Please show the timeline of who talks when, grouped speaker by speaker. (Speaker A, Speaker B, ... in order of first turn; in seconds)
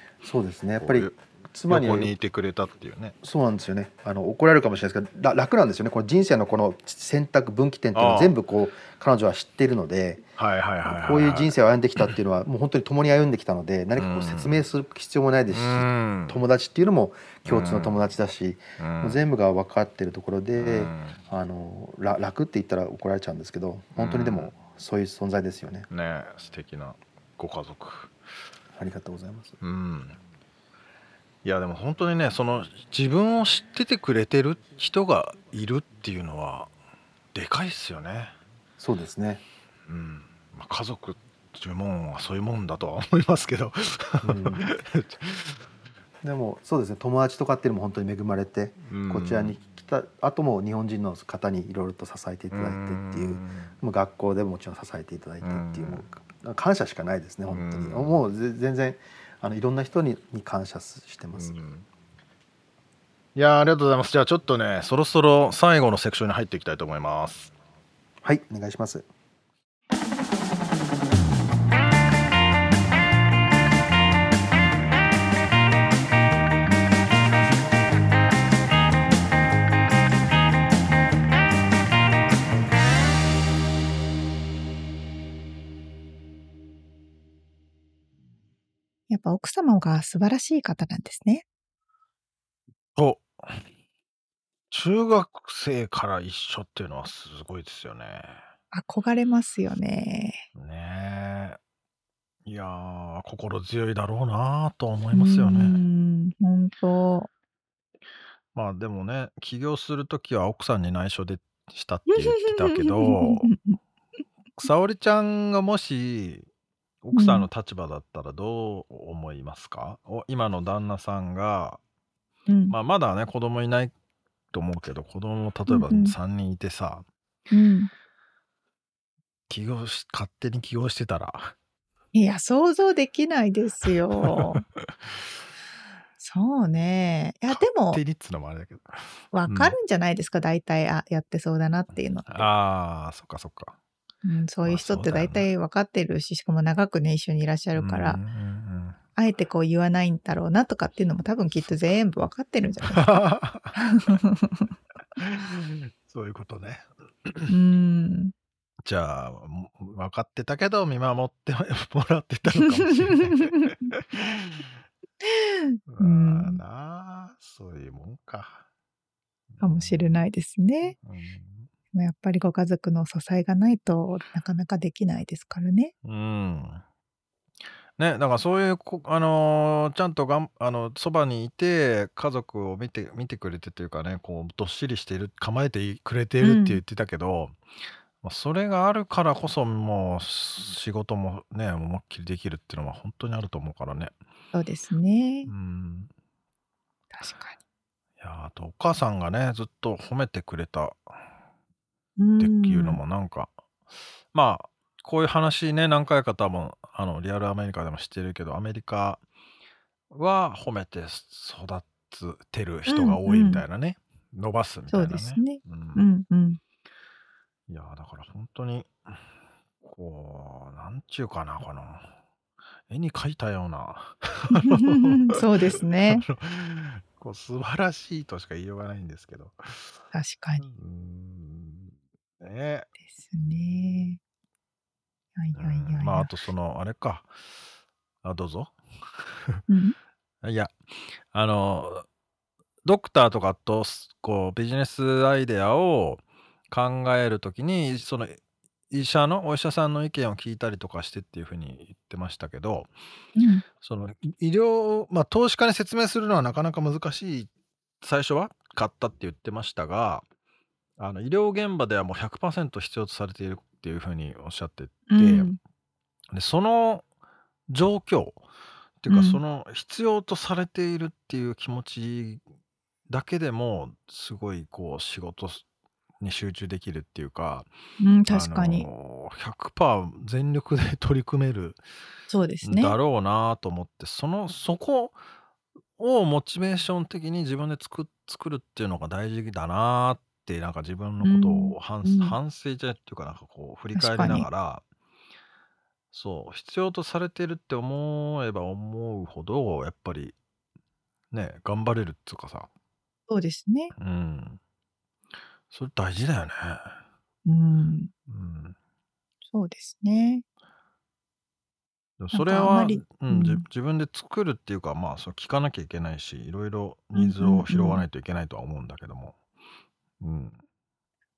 Speaker A: 0.2-2.1, 3.2-10.2, 10.9-25.9, 28.8-29.6, 38.8-39.4, 44.2-44.7, 46.2-61.6, 68.2-69.1
Speaker B: 0.8-1.2, 1.7-3.1, 7.9-8.3, 10.4-12.1, 14.0-14.6, 15.5-16.4, 17.4-18.0, 18.8-19.2, 20.6-21.2, 24.0-24.5, 25.9-28.1, 29.6-30.2, 31.4-36.7, 37.3-38.3, 39.9-45.6, 48.9-49.5, 52.5-53.7, 55.4-56.0, 57.5-58.2, 61.4-61.9, 63.4-67.5, 93.0-93.6, 94.7-98.4, 100.6-101.6, 102.5-105.8, 108.5-113.5, 114.6-116.5, 117.0-121.8, 122.7-123.9, 124.5-127.0, 129.5-131.5, 134.2-134.9, 137.5-139.8, 142.3-143.8, 144.7-145.5, 147.8-149.0, 152.9-154.2, 155.2-157.6, 158.8-164.7, 165.9-168.7, 169.5-170.2, 171.0-171.7, 176.1-176.8, 178.0-187.6, 188.2-194.1, 195.5-196.1, 198.2-201.0, 202.4-203.5, 204.3-209.2, 210.1-216.0, 217.7-219.2, 219.8-222.1, 222.9-229.9, 230.6-232.9, 235.6-237.3, 238.2-239.6, 240.4-242.1, 242.8-248.4, 248.9-252.9, 253.8-257.5, 258.0-260.2, 261.0-265.5, 266.3-267.0, 267.7-268.4, 269.0-272.4, 273.1-275.6, 276.2-277.7, 278.3-281.8, 282.6-285.2, 286.0-294.8, 296.1-300.4, 301.3-302.7, 304.0-304.6, 305.7-306.9, 308.3-308.8, 312.2-319.4, 320.2-320.6
Speaker C: 89.1-91.5, 98.7-100.4, 105.1-107.3, 112.1-113.8, 117.2-117.5, 122.5-122.8, 125.7-126.2, 127.5-127.9, 132.1-134.6, 136.2-138.0, 139.3-142.5, 144.2-148.2, 149.2-153.2, 153.8-154.7, 157.5-158.3, 162.6-163.9, 165.3-166.6, 169.6-170.9, 171.9-175.9, 186.4-186.8, 194.5-195.5, 197.1-197.6, 202.2-203.0, 212.9-213.6, 214.9-216.6, 224.6-226.3, 230.1-230.6, 233.1-234.2, 235.4-236.3, 239.7-240.0, 253.4-253.6, 265.1-265.6, 269.1-269.4, 278.0-278.9, 282.3-282.9, 291.2-292.4, 293.9-294.5, 303.3-303.9, 307.4-308.1, 309.5-310.4, 312.3-313.6, 317.1-318.1